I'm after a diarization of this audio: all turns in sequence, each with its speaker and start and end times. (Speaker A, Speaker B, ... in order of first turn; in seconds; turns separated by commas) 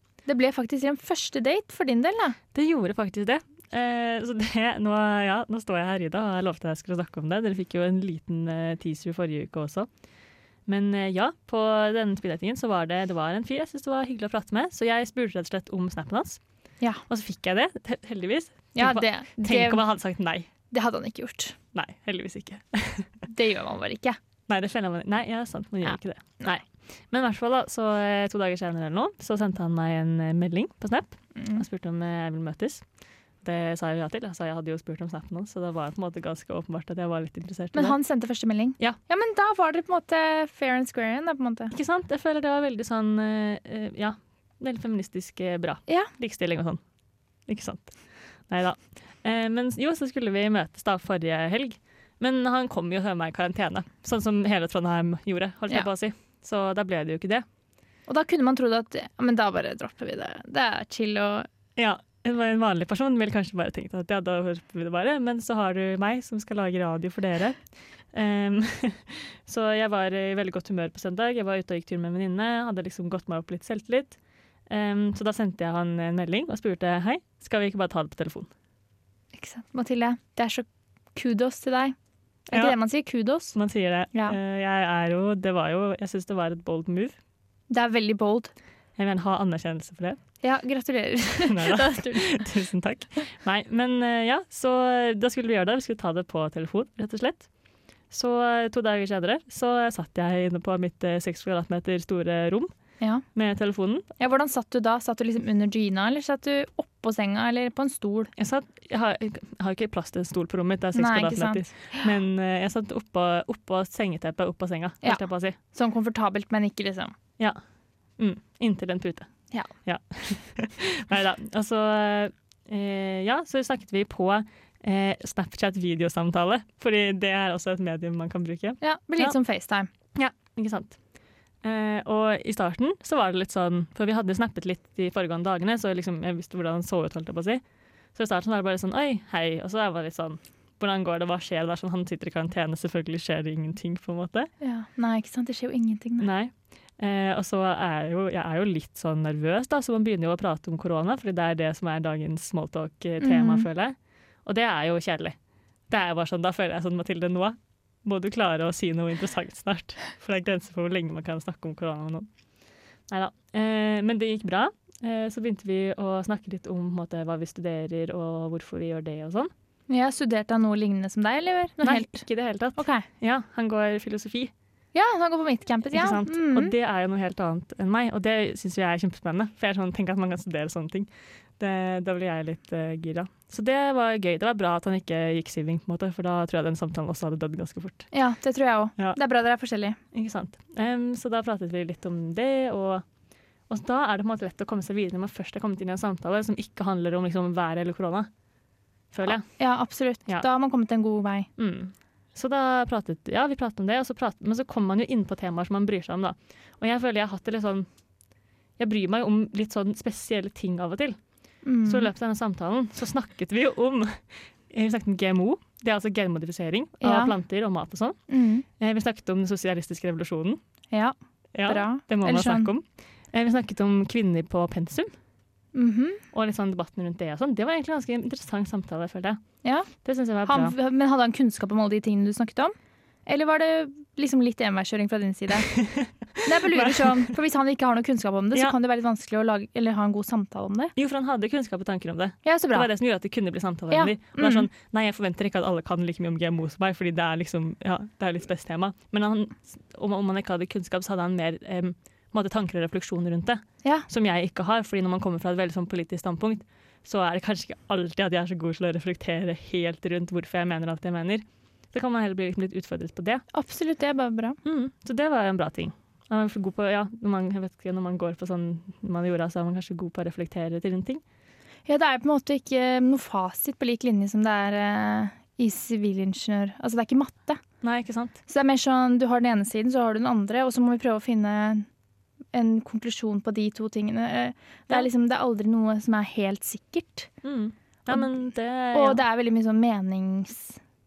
Speaker A: 0.3-2.4, Speaker B: 2.5-9.9, Speaker B: 10.7-16.4, Speaker B: 17.1-20.5, Speaker A: 18.8-19.8, Speaker A: 20.7-21.6, Speaker B: 21.7-23.1, Speaker A: 23.3-24.2, Speaker B: 24.5-32.8, Speaker A: 25.9-26.5, Speaker A: 31.3-31.6, Speaker B: 33.4-38.0, Speaker A: 37.7-41.7, Speaker B: 41.7-46.8, Speaker B: 47.5-57.4, Speaker A: 58.1-61.5, Speaker B: 61.8-67.6, Speaker B: 68.1-78.5, Speaker A: 79.3-81.9, Speaker B: 82.5-82.8, Speaker A: 82.5-83.5, Speaker B: 83.5-87.2, Speaker A: 87.7-88.5, Speaker B: 89.0-90.2, Speaker A: 90.4-92.4, Speaker B: 91.5-97.5, Speaker B: 98.1-102.7, Speaker B: 103.3-104.1, Speaker A: 104.2-108.3, Speaker B: 108.4-115.6, Speaker A: 110.9-112.0, Speaker A: 115.0-117.1, Speaker B: 118.2-119.3, Speaker B: 119.8-129.3, Speaker A: 128.8-129.9, Speaker B: 130.1-131.0, Speaker B: 131.6-137.6, Speaker B: 138.1-144.5, Speaker A: 144.6-146.3, Speaker B: 146.2-155.3, Speaker A: 153.2-153.7, Speaker B: 155.9-162.3, Speaker B: 163.1-169.5, Speaker A: 169.9-173.0, Speaker B: 171.8-174.5, Speaker A: 174.9-176.7, Speaker B: 175.9-188.1, Speaker A: 188.1-190.0, Speaker B: 190.1-193.0, Speaker B: 193.7-198.3, Speaker B: 199.1-199.4, Speaker A: 199.2-201.5, Speaker B: 201.6-207.9, Speaker B: 208.8-211.2, Speaker A: 211.6-212.1, Speaker B: 211.8-218.2, Speaker A: 217.0-217.3, Speaker A: 218.3-218.6, Speaker B: 218.8-220.6, Speaker A: 220.9-222.7, Speaker B: 221.5-225.1, Speaker A: 225.7-226.2, Speaker B: 226.3-229.4, Speaker A: 229.6-229.9, Speaker B: 230.0-230.7, Speaker A: 230.4-232.7, Speaker A: 233.2-235.7, Speaker B: 235.8-237.3, Speaker A: 236.4-240.9, Speaker B: 240.9-263.4, Speaker A: 242.4-242.9, Speaker A: 243.9-244.7, Speaker A: 263.5-264.6, Speaker B: 264.6-271.2, Speaker A: 271.9-277.6, Speaker B: 277.8-278.4, Speaker A: 278.5-281.9, Speaker A: 282.5-287.3, Speaker B: 287.4-289.2, Speaker A: 288.9-290.8